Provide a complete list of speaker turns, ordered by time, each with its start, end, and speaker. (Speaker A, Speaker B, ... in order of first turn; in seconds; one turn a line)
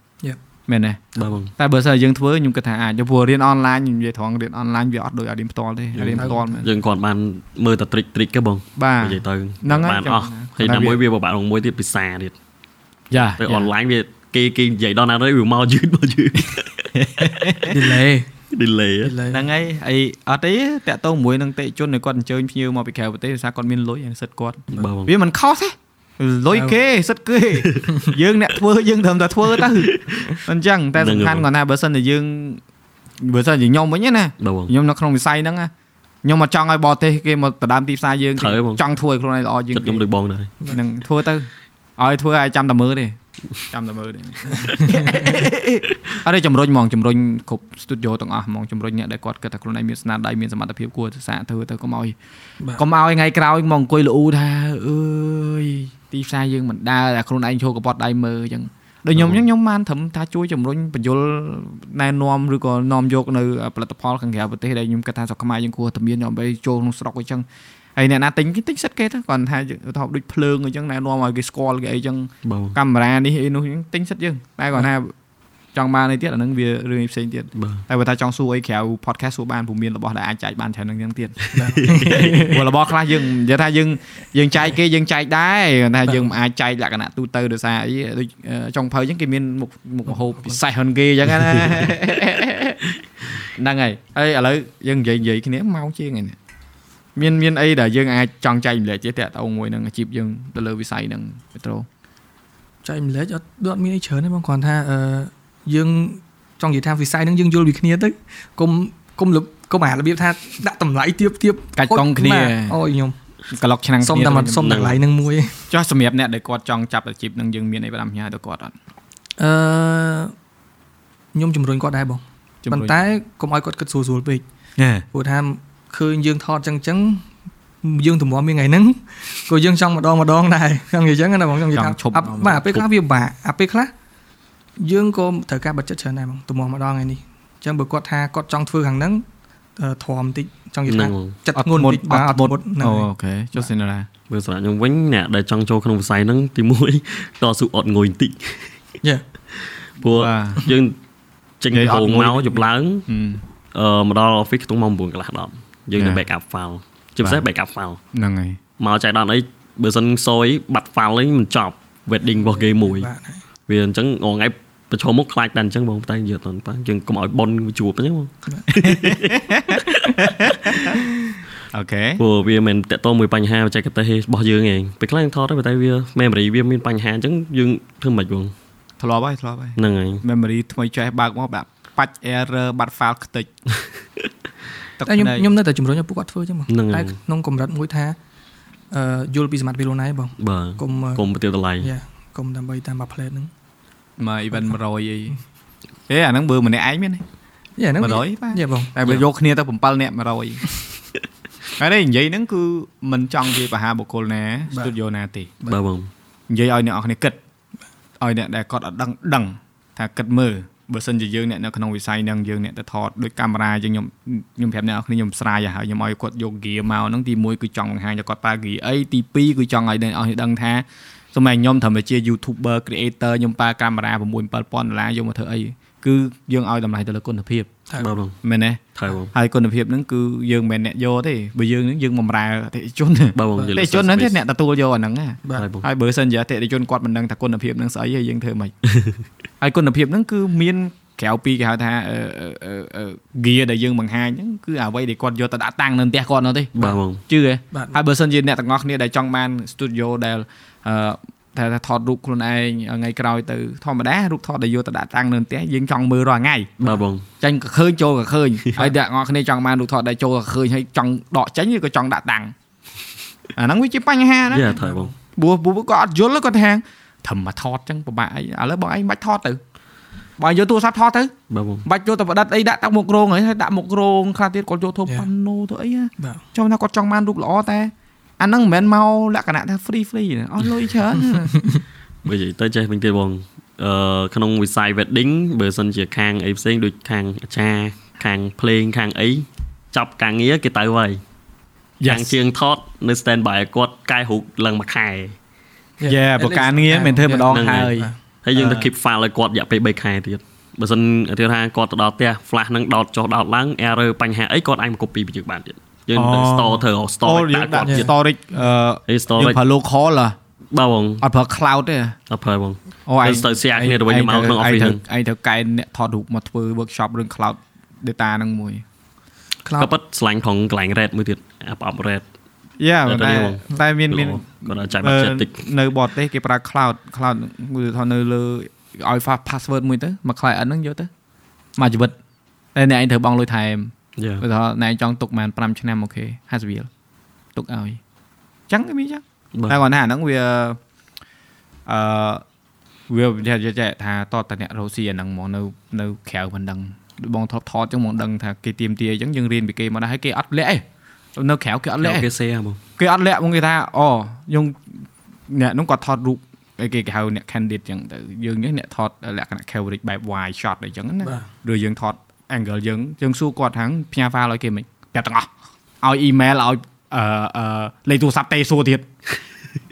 Speaker A: 0.7-6.7
Speaker B: 1.1-1.5
Speaker B: 5.9-12.3
Speaker C: 6.1-6.6
Speaker A: 8.8-11.0
Speaker A: 13.1-13.7
Speaker B: 13.4-17.7
Speaker A: 16.9-17.8
Speaker C: 17.6-18.3
Speaker B: 18.5-19.1
Speaker C: 19.0-19.4
Speaker A: 19.3-32.6
Speaker B: 24.7-25.1
Speaker B: 27.6-27.9
Speaker B: 29.6-30.4
Speaker B: 31.0-31.4
Speaker A: 33.2-35.7
Speaker B: 34.4-34.7
Speaker A: 36.2-40.0
Speaker B: 38.4-38.8
Speaker B: 39.7-40.5
Speaker A: 40.6-43.1
Speaker A: 43.7-52.1
Speaker C: 44.5-45.4
Speaker A: 52.8-67.4
Speaker A: 68.0-75.1
Speaker B: 72.4-72.8
Speaker A: 75.7-92.8
Speaker B: 77.5-77.8
Speaker C: 81.5-82.6
Speaker B: 81.7-82.4
Speaker A: 93.5-96.4
Speaker A: 97.2-101.9
Speaker C: 102.8-113.1
Speaker A: 111.8-112.7
Speaker A: 113.5-114.9
Speaker C: 114.0-115.6
Speaker B: 114.6-115.0
Speaker A: 115.7-118.7
Speaker C: 119.4-120.3
Speaker C: 121.3-124.4
Speaker A: 122.6-123.0
Speaker A: 124.8-125.0
Speaker C: 125.1-127.2
Speaker C: 127.8-133.9
Speaker A: 131.7-132.7
Speaker C: 134.8-139.2
Speaker C: 139.8-143.1
Speaker B: 140.9-141.3
Speaker A: 141.6-144.1
Speaker B: 144.3-148.7
Speaker B: 149.6-150.9
Speaker A: 150.0-150.7
Speaker B: 151.6-153.1
Speaker A: 151.7-153.4
Speaker B: 153.7-158.0
Speaker A: 155.9-156.2
Speaker A: 158.1-158.6
Speaker B: 158.8-163.1
Speaker C: 162.4-163.4
Speaker B: 163.7-170.5
Speaker A: 168.8-171.0
Speaker C: 170.7-171.4
Speaker A: 171.7-172.2
Speaker B: 172.2-178.5
Speaker A: 179.0-183.5
Speaker B: 179.8-180.2
Speaker A: 185.0-185.4
Speaker C: 185.0-188.2
Speaker B: 186.7-187.1
Speaker C: 188.9-191.2
Speaker B: 190.4-191.9
Speaker C: 191.8-193.5
Speaker A: 194.2-195.4
Speaker A: 196.1-197.2
Speaker C: 197.8-198.9
Speaker A: 198.0-200.6
Speaker A: 201.8-205.7
Speaker B: 205.7-206.1
Speaker A: 206.5-207.4
Speaker A: 208.2-227.7
Speaker B: 228.0-228.4
Speaker A: 228.4-228.8
Speaker B: 228.9-229.3
Speaker A: 229.3-238.7
Speaker B: 233.3-234.4
Speaker B: 235.5-235.9
Speaker B: 238.9-239.2
Speaker A: 239.6-246.8
Speaker B: 246.8-247.2
Speaker A: 247.3-256.7
Speaker B: 256.8-257.2
Speaker A: 257.4-262.5
Speaker A: 263.6-264.8
Speaker B: 264.5-265.1
Speaker C: 264.7-265.1
Speaker A: 265.3-269.6
Speaker A: 270.4-271.3
Speaker B: 271.5-271.9
Speaker A: 271.8-281.6
Speaker C: 281.4-281.8
Speaker B: 282.2-291.2
Speaker A: 292.0-292.4
Speaker B: 292.0-295.3
Speaker C: 296.0-298.1
Speaker A: 296.1-298.9
Speaker B: 297.4-308.1
Speaker A: 306.1-310.4
Speaker C: 307.8-308.1
Speaker B: 309.1-309.6
Speaker B: 310.7-311.2
Speaker A: 311.2-312.1
Speaker B: 312.3-315.0
Speaker A: 313.1-318.8
Speaker C: 319.6-319.9
Speaker B: 319.8-322.2
Speaker A: 322.8-331.1
Speaker B: 323.1-325.6
Speaker A: 331.8-332.1
Speaker A: 332.7-336.9
Speaker B: 334.2-334.4
Speaker A: 337.5-338.0
Speaker A: 338.7-340.8
Speaker A: 341.9-342.4
Speaker A: 343.1-350.8
Speaker A: 351.4-352.3
Speaker B: 352.0-352.8
Speaker A: 353.0-365.5
Speaker C: 361.2-361.5
Speaker A: 366.0-369.1